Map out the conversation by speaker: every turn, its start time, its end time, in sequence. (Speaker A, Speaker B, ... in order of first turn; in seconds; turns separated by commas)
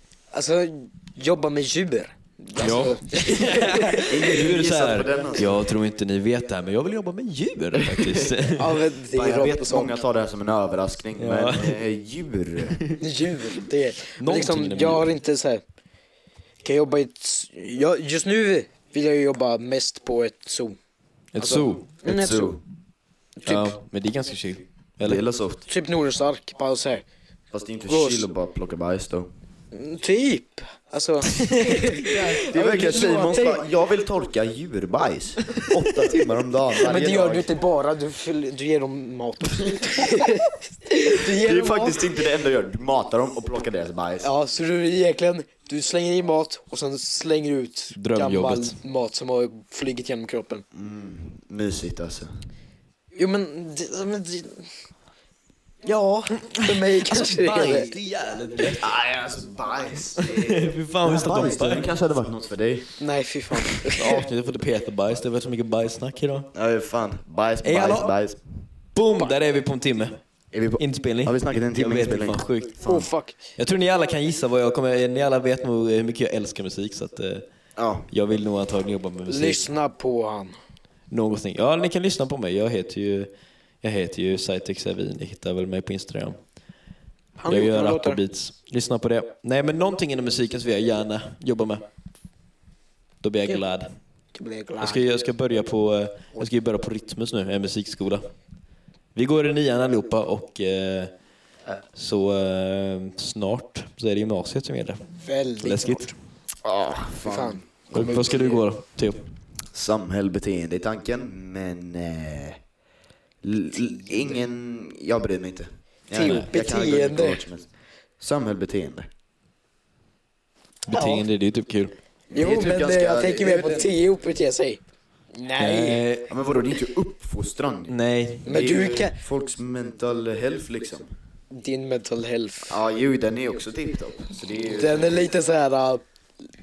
Speaker A: 0.3-3.8, Speaker B: 2.6-8.8, Speaker C: 4.0-5.7, Speaker C: 7.9-8.4, Speaker A: 8.5-10.0, Speaker C: 9.1-12.8, Speaker B: 11.2-11.8, Speaker A: 13.0-15.6, Speaker B: 14.1-15.1, Speaker A: 16.6-20.8, Speaker B: 21.3-21.9, Speaker A: 21.4-22.6, Speaker C: 22.0-22.6, Speaker A: 23.4-23.7, Speaker B: 23.4-25.2, Speaker C: 25.0-25.7, Speaker A: 25.7-27.0, Speaker C: 27.5-29.3, Speaker A: 27.9-28.2, Speaker A: 29.7-33.6, Speaker B: 31.4-31.8, Speaker C: 32.0-37.5, Speaker A: 36.8-42.2, Speaker C: 41.1-44.3, Speaker A: 44.2-50.6, Speaker B: 47.9-48.8, Speaker C: 50.7-52.3, Speaker A: 53.1-54.7, Speaker A: 55.8-57.9, Speaker B: 57.0-58.8, Speaker C: 58.6-63.0, Speaker B: 60.2-61.9, Speaker A: 63.0-64.2, Speaker C: 63.9-64.2, Speaker B: 63.9-66.5, Speaker C: 66.5-68.4, Speaker B: 67.6-68.1, Speaker B: 68.9-70.2, Speaker C: 70.5-73.1, Speaker B: 70.8-72.8, Speaker A: 72.8-73.4, Speaker B: 73.6-77.5, Speaker C: 77.8-78.1, Speaker B: 78.1-79.7, Speaker A: 79.3-80.5, Speaker B: 81.1-83.3, Speaker B: 83.8-86.4, Speaker A: 87.4-88.2, Speaker B: 87.5-91.8, Speaker B: 93.2-93.9, Speaker A: 94.3-95.0, Speaker B: 94.8-98.3, Speaker B: 99.1-101.1, Speaker B: 101.9-105.1, Speaker A: 105.2-106.1, Speaker B: 105.6-106.1, Speaker C: 106.6-107.6, Speaker A: 107.2-108.6, Speaker B: 107.9-109.2, Speaker C: 109.7-112.6, Speaker C: 113.4-117.7, Speaker A: 116.1-117.5, Speaker B: 116.2-116.5, Speaker C: 118.2-119.1, Speaker B: 120.9-121.9, Speaker A: 120.9-121.2, Speaker C: 122.3-124.0, Speaker A: 122.3-124.8, Speaker A: 125.3-126.0, Speaker B: 125.6-126.3, Speaker C: 126.3-131.1, Speaker B: 127.9-128.5, Speaker A: 128.4-129.2, Speaker A: 131.5-132.8, Speaker C: 132.7-135.3, Speaker A: 134.7-136.0